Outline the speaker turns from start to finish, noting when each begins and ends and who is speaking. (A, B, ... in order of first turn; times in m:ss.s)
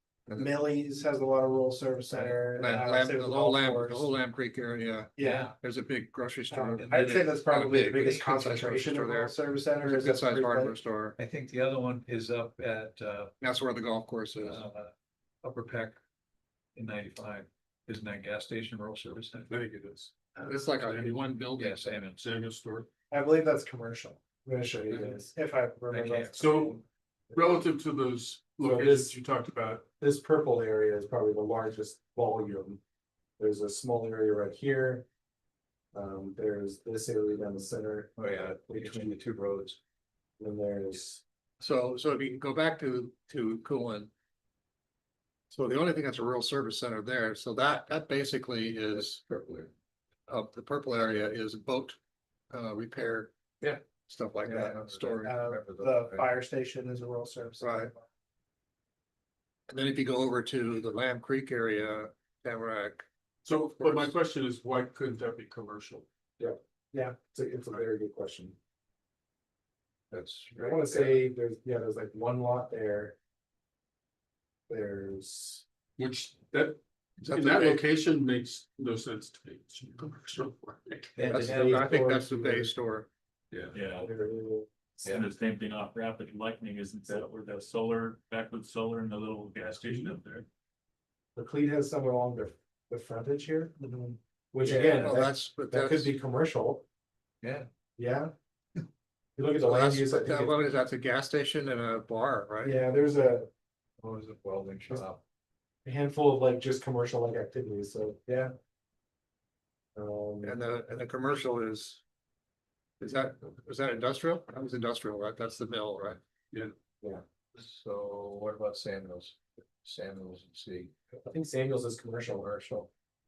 0:00.4-0:04.2 A
0:02.2-0:11.2 B
0:05.2-0:05.5 A
0:05.2-0:05.5 C
0:06.5-0:10.8 A
0:06.8-0:08.4 C
0:11.2-0:13.3 C
0:13.4-0:14.6 B
0:14.4-0:14.9 C
0:15.4-0:16.0 C
0:16.7-0:19.5 C
0:19.5-0:20.3 D
0:20.4-0:21.8 B
0:20.8-0:21.2 D
0:21.6-0:22.2 C
0:22.2-0:22.9 D
0:23.1-0:26.8 A
0:25.9-0:26.8 C
0:26.3-0:26.8 D
0:27.3-0:29.8 D
0:28.6-0:29.2 A
0:30.0-0:32.8 A
0:33.4-0:35.0 A
0:35.9-0:38.1 A
0:38.2-0:39.8 C
0:38.7-0:39.1 A
0:40.4-0:41.2 A
0:41.6-0:44.1 B
0:45.5-0:49.2 B
0:48.9-0:49.7 C
0:50.3-0:52.0 B
0:52.5-0:53.3 B
0:54.0-0:55.3 B
0:54.4-0:56.3 C
0:55.2-0:58.0 A
0:57.6-0:57.9 B
0:59.7-1:03.0 B
1:03.4-1:06.0 D
1:03.8-1:04.1 B
1:06.4-1:08.5 A
1:10.1-1:11.2 C
1:10.6-1:13.2 A
1:14.7-1:15.6 A
1:16.0-1:21.2 D
1:17.2-1:17.8 B
1:21.1-1:21.9 C
1:21.2-1:22.7 A
1:21.3-1:23.1 B
1:23.7-1:24.1 E
1:24.0-1:24.7 A
1:25.0-1:30.5 E
1:31.4-1:36.8 A
1:34.6-1:36.1 B
1:37.4-1:37.7 C
1:38.0-1:38.3 A
1:39.4-1:40.6 A
1:39.6-1:42.8 B
1:42.6-1:43.5 A
1:44.0-1:45.2 C
1:45.8-1:48.5 A
1:49.9-1:50.6 A
1:50.4-1:52.0 B
1:53.0-1:56.2 B
1:57.5-2:00.9 C
2:01.1-2:02.4 A
2:02.4-2:02.9 C